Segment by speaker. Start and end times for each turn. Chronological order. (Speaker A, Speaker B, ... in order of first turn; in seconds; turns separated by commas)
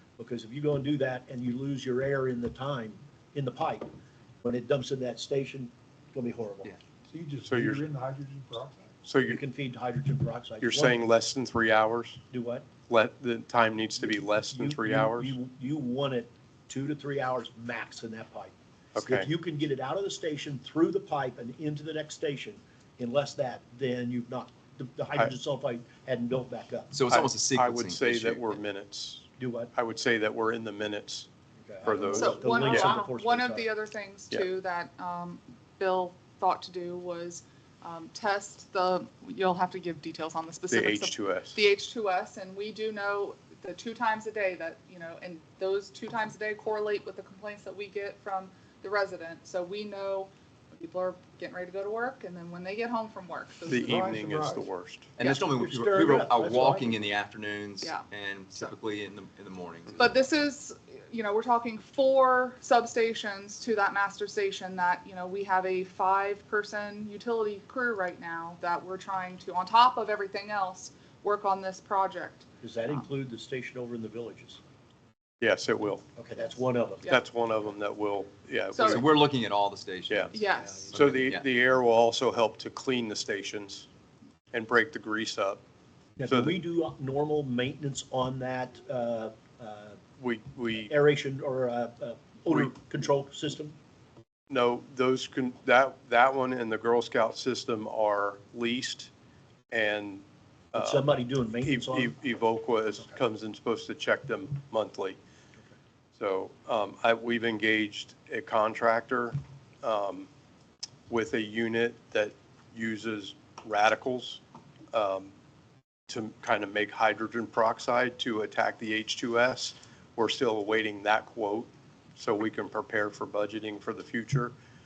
Speaker A: 0.2-3.9, Speaker A: 4.4-6.8, Speaker B: 7.1-8.9, Speaker C: 7.5-7.8, Speaker C: 9.0-9.4, Speaker A: 9.2-11.0, Speaker C: 10.6-12.2, Speaker A: 12.3-12.7, Speaker C: 12.9-15.4, Speaker A: 14.0-26.9, Speaker C: 18.9-19.3, Speaker D: 26.9-28.6, Speaker C: 27.1-31.3, Speaker A: 29.4-29.7, Speaker A: 31.6-33.7, Speaker C: 31.8-33.0, Speaker E: 32.1-54.0, Speaker C: 40.7-41.6, Speaker C: 53.6-55.1, Speaker B: 53.8-54.7, Speaker D: 55.2-60.1, Speaker A: 55.2-57.0, Speaker E: 57.8-58.7, Speaker E: 60.0-73.0, Speaker A: 72.6-74.6, Speaker C: 75.4-76.0, Speaker A: 76.2-77.1, Speaker C: 77.0-79.1, Speaker E: 78.7-79.0, Speaker D: 78.8-81.5, Speaker C: 80.1-80.3, Speaker E: 80.3-80.9, Speaker A: 80.6-80.9, Speaker C: 80.9-83.9, Speaker C: 84.5-85.6, Speaker A: 86.2-90.0, Speaker C: 86.3-86.5, Speaker C: 90.2-90.9, Speaker A: 90.9-93.8, Speaker C: 94.5-99.1, Speaker C: 99.7-101.0, Speaker A: 100.7-102.1, Speaker C: 101.6-105.2, Speaker C: 106.1-110.3, Speaker C: 111.1-114.4, Speaker C: 114.9-115.3, Speaker C: 116.1-124.5